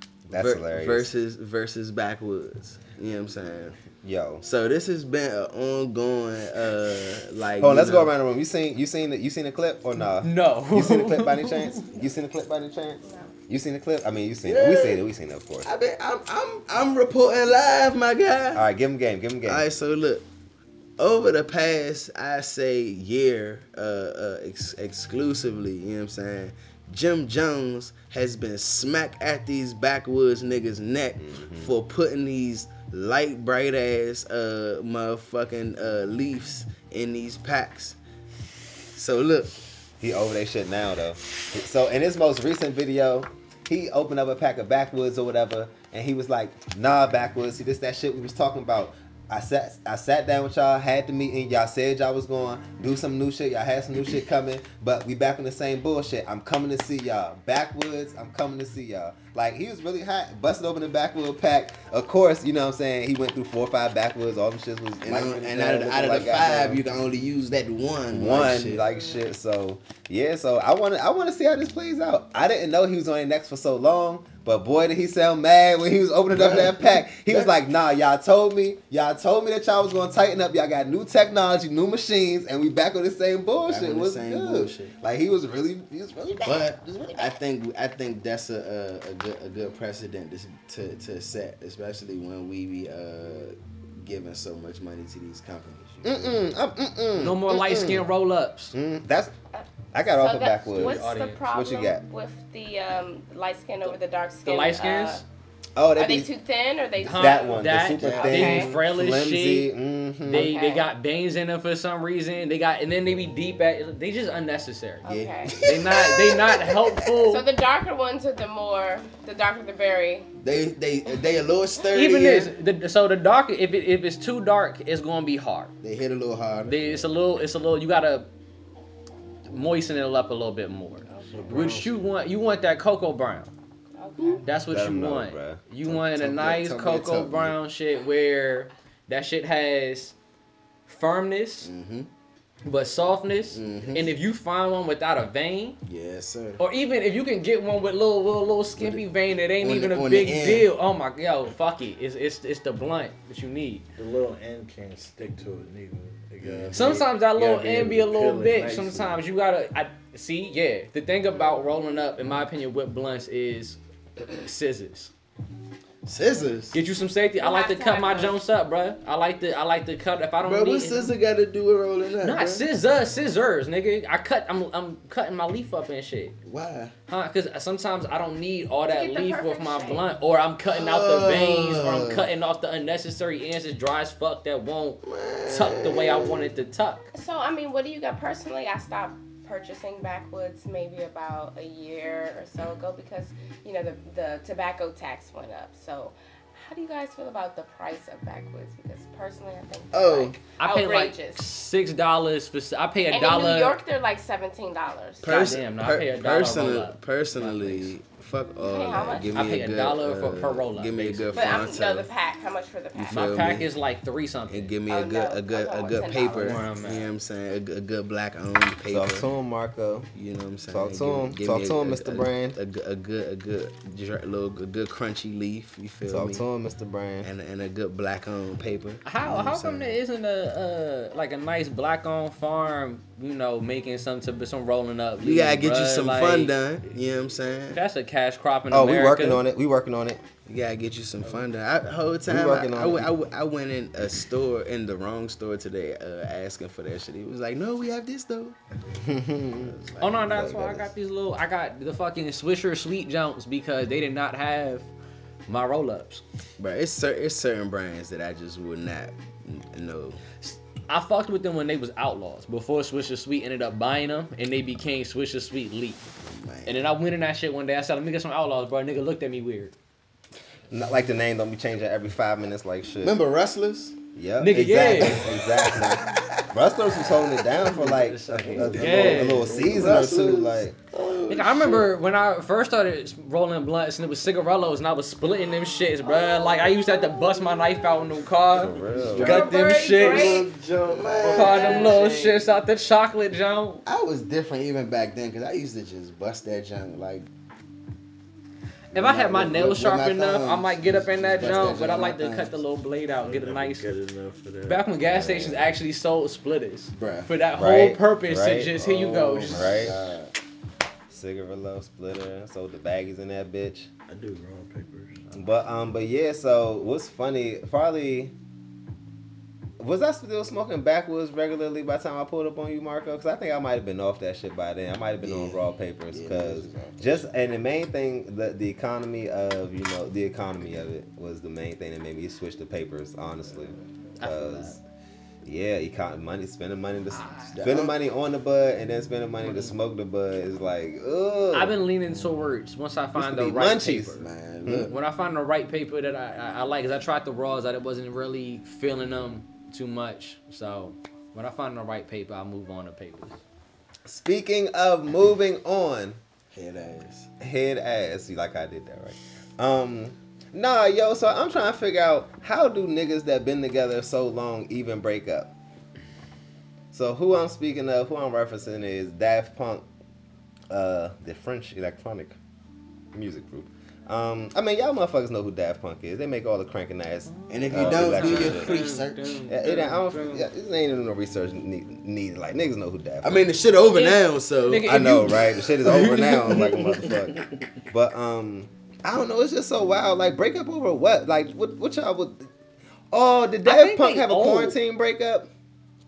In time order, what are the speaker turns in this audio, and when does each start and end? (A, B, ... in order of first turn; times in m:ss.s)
0:00.3-0:01.1 A
0:00.3-0:03.8 B
0:04.0-0:04.4 A
0:04.4-0:08.1 B
0:07.6-0:15.7 A
0:10.2-0:11.8 C
0:13.0-0:13.3 D
0:14.4-0:15.0 B
0:15.6-0:18.6 B
0:18.6-0:19.6 A
0:19.5-0:20.2 B
0:21.0-0:38.0 B
0:31.2-0:31.7 A
0:38.9-0:39.6 B
0:40.0-1:06.8 A
1:05.0-1:08.8 B
1:08.1-1:27.3 A
1:16.3-1:17.5 B
1:23.7-1:24.9 B
1:26.4-1:36.4 B
1:36.0-1:38.1 A
1:37.2-1:38.8 C
1:38.7-1:39.3 A
1:39.5-1:45.2 D
1:39.9-1:42.0 A
1:40.7-1:41.4 C
1:44.4-1:45.2 C
1:45.8-1:46.3 A
1:46.0-1:48.7 D
1:47.0-1:49.7 C
1:47.2-1:50.5 A
1:48.0-1:48.4 B
1:50.3-1:57.4 C
1:50.3-1:50.9 D
1:55.0-1:55.8 D
1:55.0-1:57.1 B
1:57.2-2:00.3 D
2:00.4-2:02.5 B
2:01.9-2:05.7 C
2:05.8-2:07.1 B
2:06.7-2:08.3 C
2:09.5-2:13.5 C
2:11.1-2:11.5 D
2:11.3-2:12.0 E
2:14.0-2:14.5 D
2:14.4-2:20.2 C
2:14.6-2:15.6 A
2:15.8-2:17.6 B
2:20.9-2:21.7 C
2:21.6-2:22.1 B
2:22.6-2:25.8 C
2:23.5-2:24.2 B
2:25.9-2:26.6 B
2:26.6-2:33.9 C
2:28.8-2:29.0 B
2:29.6-2:30.7 B
2:34.0-2:39.2 E
2:36.4-2:37.0 B
2:36.7-2:45.1 C
2:46.0-2:46.8 B
2:46.7-2:51.1 C
2:47.4-2:48.4 D
2:50.4-2:52.7 B
2:52.2-2:56.4 C
2:56.4-2:56.9 B
2:57.1-3:07.1 C
2:58.9-3:00.0 D
3:00.7-3:02.3 B
3:05.0-3:06.5 B
3:07.1-3:21.5 D
3:19.9-3:20.4 B
3:20.6-3:23.8 C
3:23.1-3:25.3 D
3:25.2-3:32.1 B
3:25.2-3:28.0 C
3:28.6-3:29.4 D
3:29.3-3:31.7 C
3:31.3-3:33.5 D
3:33.0-3:33.7 B
3:33.1-3:34.7 C
3:34.5-3:39.3 B
3:34.9-3:36.7 D
3:36.2-3:37.1 C
3:38.9-3:40.1 A
3:40.1-3:46.4 B
3:40.7-3:42.6 A
3:46.1-3:47.3 A
3:47.2-3:50.0 B
3:49.0-3:56.6 C
3:55.2-3:57.8 B
3:57.7-3:59.4 C
3:58.7-4:00.2 A
4:00.5-4:08.6 B
4:02.3-4:03.1 A
4:09.0-4:09.8 A
4:09.5-4:10.9 B
4:10.0-4:14.9 C
4:10.3-4:10.8 A
4:15.5-4:16.2 C
4:16.6-4:20.2 B
4:20.4-4:26.1 C
4:26.2-4:26.8 B
4:26.6-4:29.7 C
4:30.7-4:33.2 A
4:33.0-4:34.0 B
4:34.2-4:40.8 A
4:34.4-4:35.3 C
4:35.3-4:36.4 B
4:37.6-4:39.6 C
4:38.5-4:40.0 E
4:38.6-4:41.9 B
4:41.3-4:50.5 C
4:48.5-4:49.4 A
4:48.9-4:49.5 E
4:49.0-4:52.4 B
4:49.2-4:50.5 D
4:50.3-4:52.0 E
4:51.2-4:52.2 D
4:51.2-4:53.8 C
4:53.9-4:57.3 B
4:58.9-5:02.6 B
4:58.9-5:03.9 C
5:03.2-5:04.8 E
5:04.6-5:10.0 C
5:05.1-5:05.8 A
5:07.0-5:07.3 B
5:07.5-5:08.8 A
5:08.8-5:10.3 B
5:09.5-5:10.0 A
5:11.1-5:13.9 A
5:14.1-5:15.3 E
5:15.3-5:18.3 A
5:19.8-5:34.8 A
5:25.2-5:27.3 B
5:34.2-5:34.8 C
5:35.4-5:41.8 A
5:37.2-5:37.5 C
5:37.5-5:38.0 B
5:39.4-5:39.7 C
5:41.5-5:44.3 C
5:43.2-5:44.9 A
5:44.2-5:45.0 B
5:44.9-5:53.4 C
5:54.0-5:56.2 A
5:56.5-5:57.3 B
5:57.4-6:05.5 A
6:06.9-6:09.8 A
6:10.7-6:12.4 A
6:13.1-6:18.7 A
6:17.3-6:20.5 C
6:17.5-6:19.4 B
6:19.5-6:23.4 A
6:23.2-6:25.3 B
6:23.9-6:26.8 C
6:24.8-6:32.5 A
6:25.9-6:27.6 B
6:33.1-6:35.5 A
6:33.6-6:34.8 C